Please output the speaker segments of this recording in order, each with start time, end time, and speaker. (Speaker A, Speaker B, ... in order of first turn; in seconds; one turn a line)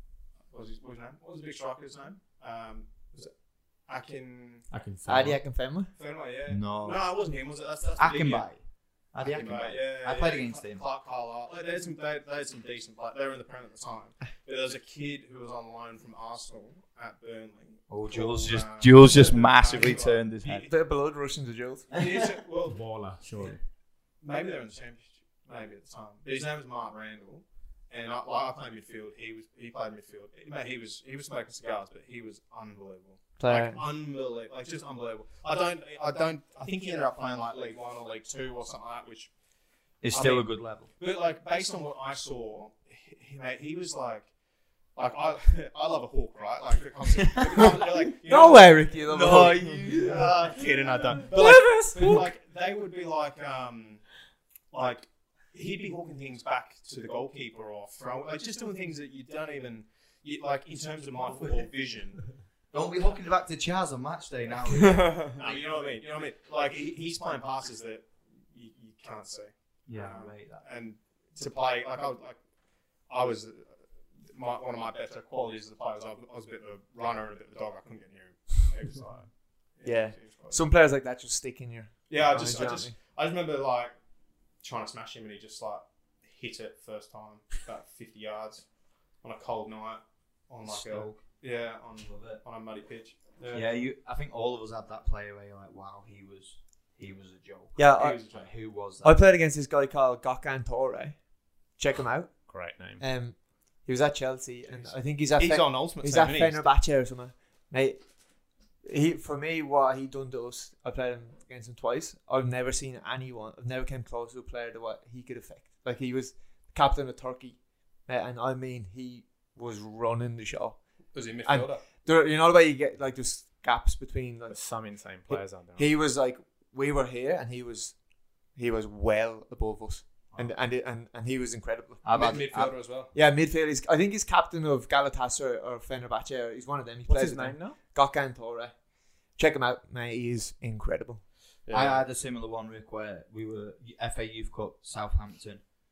Speaker A: 0.5-4.7
Speaker B: 4.7-5.5
Speaker C: 5.0-5.9
Speaker A: 6.0-8.5
Speaker D: 6.5-7.0
Speaker D: 8.0-10.8
Speaker A: 9.2-20.7
Speaker D: 17.9-20.7
Speaker C: 20.5-22.0
Speaker A: 21.9-22.8
Speaker B: 22.7-23.6
Speaker A: 24.2-39.3
Speaker C: 33.4-33.8
Speaker D: 40.0-40.9
Speaker A: 40.1-44.3
Speaker A: 45.0-54.1
Speaker C: 47.6-50.3
Speaker D: 49.1-50.3
Speaker B: 51.3-52.3
Speaker A: 54.7-62.4
Speaker D: 61.4-61.6
Speaker D: 62.7-65.4
Speaker C: 64.8-65.3
Speaker A: 65.3-72.4
Speaker D: 69.9-70.6
Speaker A: 73.1-80.6
Speaker C: 79.8-82.9
Speaker A: 82.1-83.9
Speaker A: 84.6-88.7
Speaker A: 89.2-93.7
Speaker D: 90.7-91.2
Speaker D: 93.5-99.2
Speaker C: 97.8-98.2
Speaker A: 98.0-98.5
Speaker C: 99.0-132.0
Speaker B: 102.5-103.0
Speaker A: 104.7-106.7
Speaker A: 121.1-121.8
Speaker B: 124.5-125.9
Speaker D: 132.0-132.7
Speaker A: 132.1-133.1
Speaker C: 133.1-141.2
Speaker B: 137.1-137.8
Speaker A: 141.7-142.0
Speaker D: 141.7-145.6